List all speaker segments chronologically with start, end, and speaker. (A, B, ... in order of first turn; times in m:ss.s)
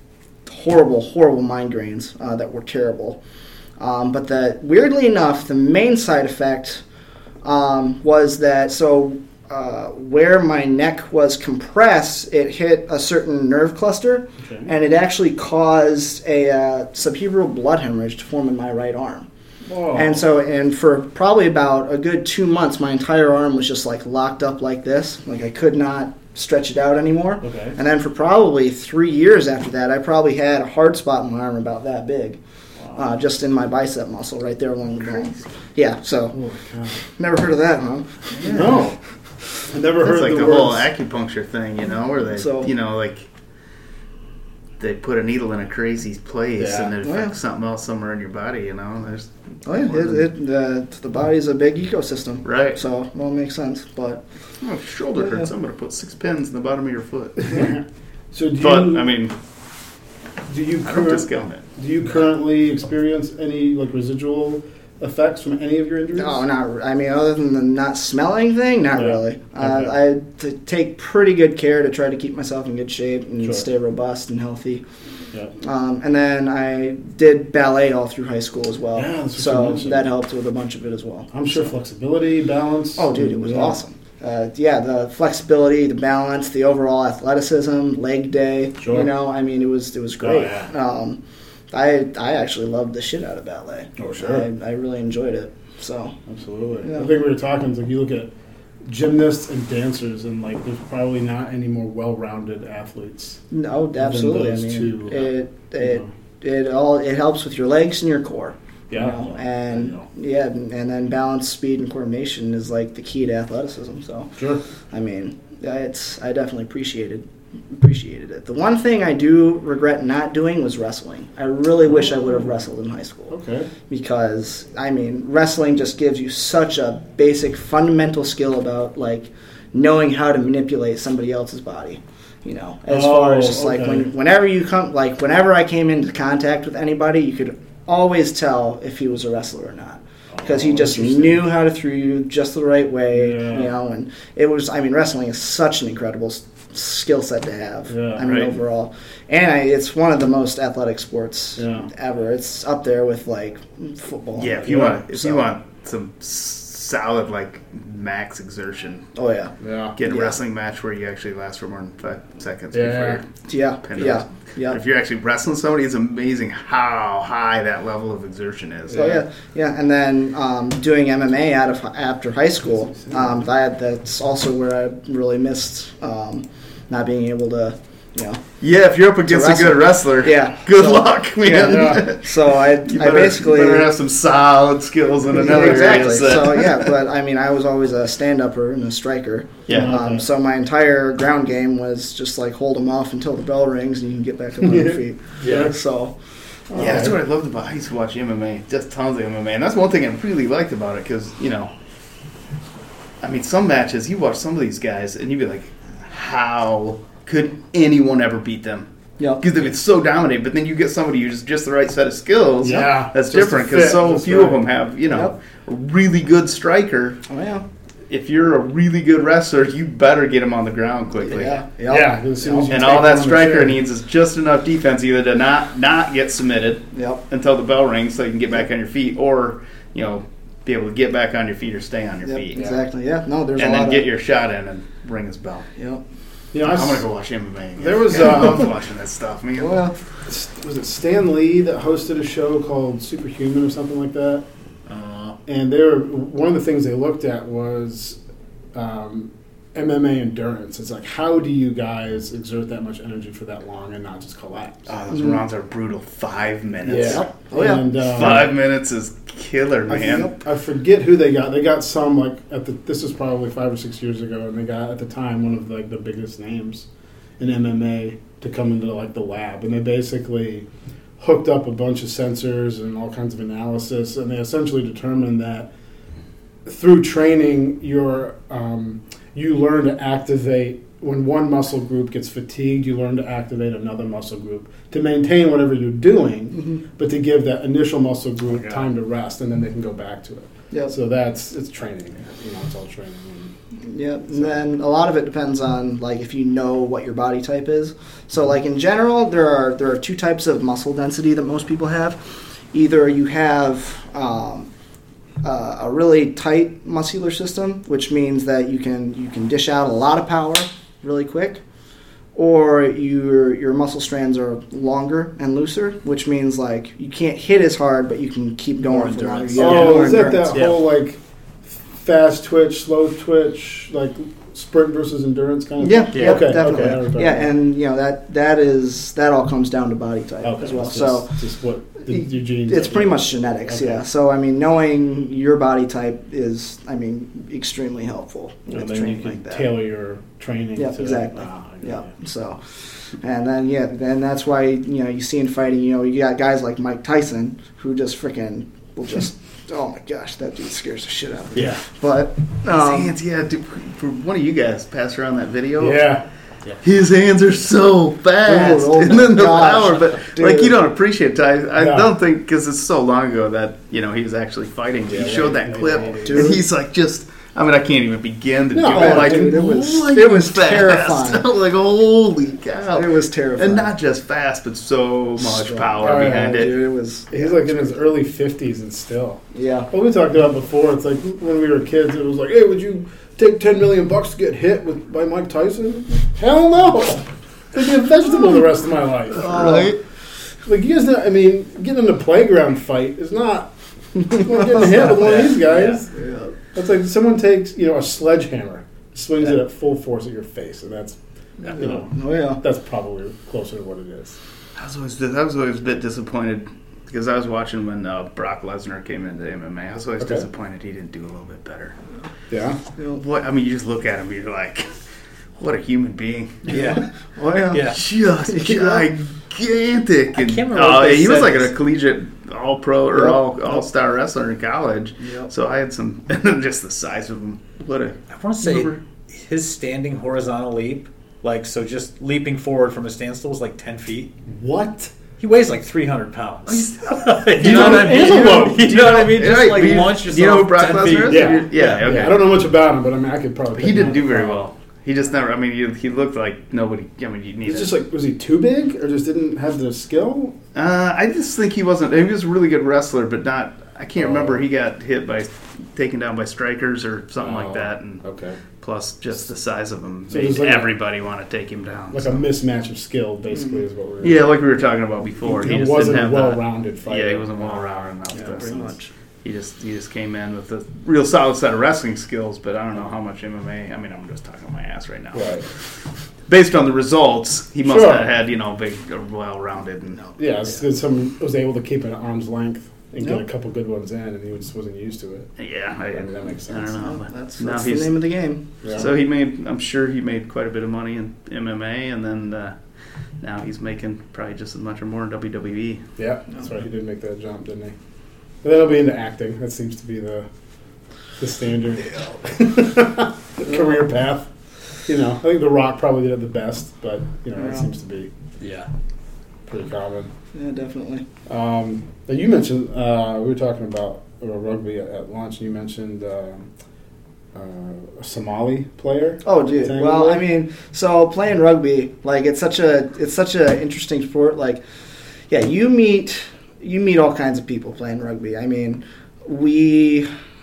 0:00.5-0:03.2 A
0:03.8-0:06.8 A
0:07.4-0:19.3 A
0:14.4-0:14.7 B
0:19.7-0:20.2 B
0:19.9-0:32.4 A
0:27.4-0:27.8 B
0:33.0-0:36.4 A
0:35.0-0:35.4 C
0:36.3-0:37.0 B
0:37.1-0:38.7 A
0:38.4-0:39.0 B
0:39.7-0:40.9 B
0:40.0-0:43.3 C
0:42.3-0:42.7 A
0:44.8-0:50.2 C
0:46.6-0:46.9 B
0:47.0-0:47.3 A
0:49.7-0:54.2 A
0:52.4-0:52.8 C
0:54.6-0:57.7 C
0:55.2-0:55.5 A
0:57.4-0:59.2 B
0:58.6-0:59.4 C
1:00.5-1:06.4 B
1:00.8-1:01.6 C
1:06.2-1:14.8 A
1:08.9-1:09.9 B
1:15.6-1:21.7 A
1:19.0-1:20.1 B
1:21.3-1:23.8 B
1:23.0-1:31.2 A
1:28.8-1:29.1 B
1:30.2-1:30.7 B
1:31.7-1:36.2 A
1:34.0-1:34.5 B
1:36.3-1:38.3 B
1:36.8-1:37.1 A
1:38.9-1:43.4 B
1:43.5-1:54.3 A
1:44.0-1:46.1 B
1:48.9-1:50.0 B
1:54.4-1:54.6 B
1:54.9-2:03.3 A
2:03.3-2:03.7 B
2:03.9-2:35.4 A
2:12.9-2:14.1 B
2:20.3-2:21.4 B
2:23.1-2:23.7 B
2:27.9-2:28.4 B
2:28.2-2:28.5 C
2:31.6-2:31.9 B
2:34.4-2:39.1 C
2:34.6-2:35.0 B
2:39.2-2:40.4 A
2:39.6-2:40.0 B
2:40.0-2:49.2 C
2:42.7-2:43.2 B
2:43.5-2:44.8 A
2:48.9-2:49.2 B
2:48.9-2:58.4 A
2:58.6-3:06.9 C
2:59.2-3:03.9 A
3:01.6-3:02.1 B
3:05.3-3:16.1 A
3:09.7-3:10.0 C
3:09.7-3:10.2 B
3:14.8-3:15.7 B
3:15.4-3:15.7 D
3:16.7-3:17.2 B
3:16.7-3:17.0 A
3:16.8-3:21.7 C
3:23.2-3:37.2 C
3:29.2-3:29.4 A
3:32.6-3:34.6 B
3:37.3-3:37.6 A
3:38.1-3:41.6 C
3:41.2-3:42.7 A
3:41.9-3:43.8 B
3:42.7-3:52.7 C
3:46.9-3:47.2 A
3:52.3-3:54.1 A
3:53.6-3:55.7 C
3:56.5-3:57.1 B
3:56.6-3:59.8 C
3:57.8-3:58.7 B
3:59.6-4:00.0 A
4:00.3-4:04.4 B
4:04.9-4:05.4 D
4:05.5-4:08.2 B
4:08.7-4:14.9 B
4:14.9-4:17.3 C
4:15.1-4:15.4 A
4:16.8-4:18.6 B
4:17.0-4:17.9 A
4:18.0-4:20.3 C
4:19.9-4:26.9 B
4:27.4-4:30.7 B
4:31.2-4:35.7 B
4:36.7-4:53.5 B
4:46.6-4:46.8 A
4:53.9-5:02.2 A
5:02.7-5:04.7 A
5:05.4-5:11.6 A
5:12.4-5:20.6 A
5:18.9-5:27.5 B
5:19.5-5:20.8 D
5:25.8-5:31.4 A
5:26.1-5:26.6 D
5:30.4-5:34.0 B
5:32.2-5:39.7 A
5:38.7-5:42.0 B
5:40.8-5:42.7 A
5:43.2-5:53.1 A
5:51.6-5:51.8 D
5:52.7-5:56.1 C
5:55.8-5:56.2 B
5:56.8-6:16.7 C
5:58.4-6:00.8 A
6:01.8-6:02.1 B
6:05.1-6:06.5 B
6:06.2-6:06.6 A
6:08.7-6:09.6 B
6:08.9-6:11.5 A
6:12.9-6:13.9 A
6:15.4-6:17.9 A
6:16.0-6:16.7 B
6:17.3-6:29.9 B
6:19.5-6:19.9 A
6:29.4-6:29.9 A
6:29.4-6:30.0 C
6:30.7-6:36.1 B
6:35.0-6:36.0 D
6:36.2-6:36.4 A
6:36.8-6:41.2 B
6:41.7-6:42.6 A
6:41.8-6:44.4 B
6:44.8-6:52.0 C
6:50.2-6:50.4 B
6:52.5-6:52.8 B
6:53.1-6:54.9 C
6:55.6-6:57.0 C
6:56.7-6:57.0 D
6:56.7-6:59.1 A
6:57.7-6:58.0 D
6:57.8-7:09.0 C
7:00.3-7:01.7 D
7:03.1-7:03.4 A
7:08.3-7:14.4 D
7:14.5-7:15.1 B
7:15.4-7:22.1 D
7:16.7-7:22.5 C
7:17.6-7:18.9 B
7:21.3-7:24.7 B
7:23.8-7:27.9 C
7:27.7-7:30.6 B
7:30.7-7:38.2 C
7:37.4-7:38.6 B
7:38.8-7:42.5 C
7:40.3-7:41.0 B
7:42.1-7:44.5 B
7:44.2-7:48.9 C
7:45.5-7:47.8 B
7:48.3-7:48.9 B
7:48.6-7:49.1 A
7:49.4-7:55.6 C
7:55.3-7:55.7 B
7:56.5-8:00.4 C
7:57.8-7:58.3 B
8:00.4-8:05.5 B
8:05.6-8:08.2 C
8:06.1-8:07.0 B
8:07.0-8:08.7 A
8:08.8-8:09.1 B
8:08.9-8:12.8 C
8:13.4-8:16.0 C
8:16.2-8:17.9 B
8:18.6-8:20.5 B
8:21.4-8:24.5 B
8:25.1-8:28.3 B
8:27.6-8:27.8 A
8:28.6-8:28.9 D
8:29.7-8:30.3 B
8:30.5-8:31.3 A
8:31.5-8:36.7 B
8:37.6-8:40.4 B
8:39.4-8:44.8 A
8:45.5-8:50.3 A